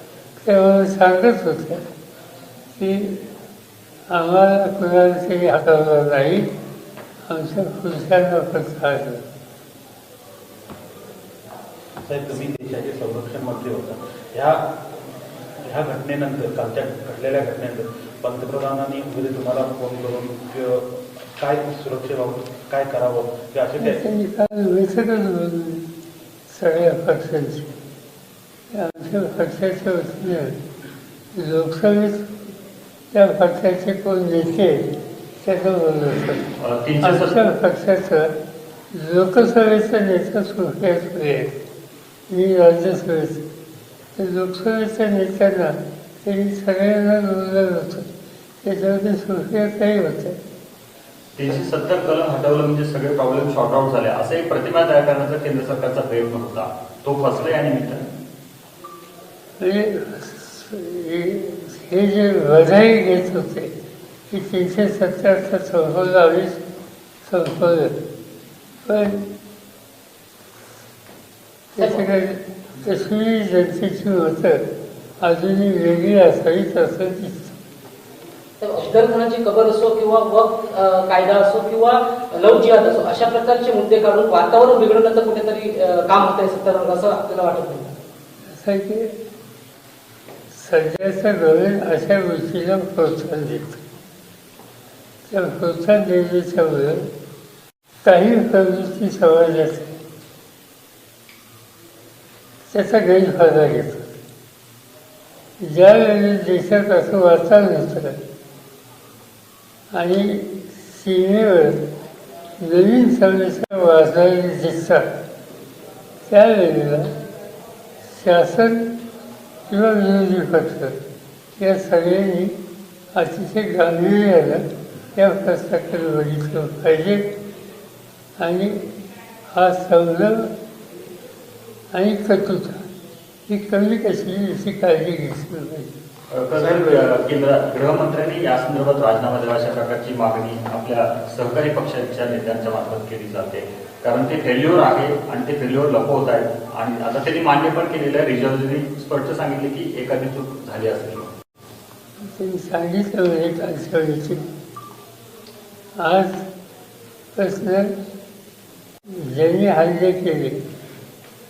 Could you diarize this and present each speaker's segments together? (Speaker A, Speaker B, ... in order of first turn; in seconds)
Speaker A: 0.4-1.8, 2.8-3.2, 4.1-6.5, 7.3-9.2, 23.8-25.9, 26.5-27.7, 28.7-30.6, 31.4-32.3, 33.1-34.9, 35.4-36.5, 37.0-38.3, 38.9-41.5, 42.3-43.4, 44.2-48.1, 48.6-50.4, 59.6-63.7, 64.3-66.6, 67.2-67.9, 68.9-69.2, 71.8-74.6, 75.2-77.6, 88.5-89.1, 90.5-93.8, 95.3-97.1, 98.0-99.9, 102.7-104.0, 105.6-108.2, 109.9-111.8, 112.6-115.1, 116.3-117.1, 118.1-118.9, 119.7-121.0, 121.6-122.6, 123.1-127.2, 128.4-128.8, 129.5-130.5, 131.9-132.8, 133.5-135.9, 152.2-154.4, 156.0-156.4, 157.4-157.9, 159.1-160.6
Speaker B: 12.1-14.7, 15.6-20.9, 21.4-24.0
Speaker C: 36.6-37.4, 51.4-58.1, 136.3-151.3
Speaker D: 78.6-87.9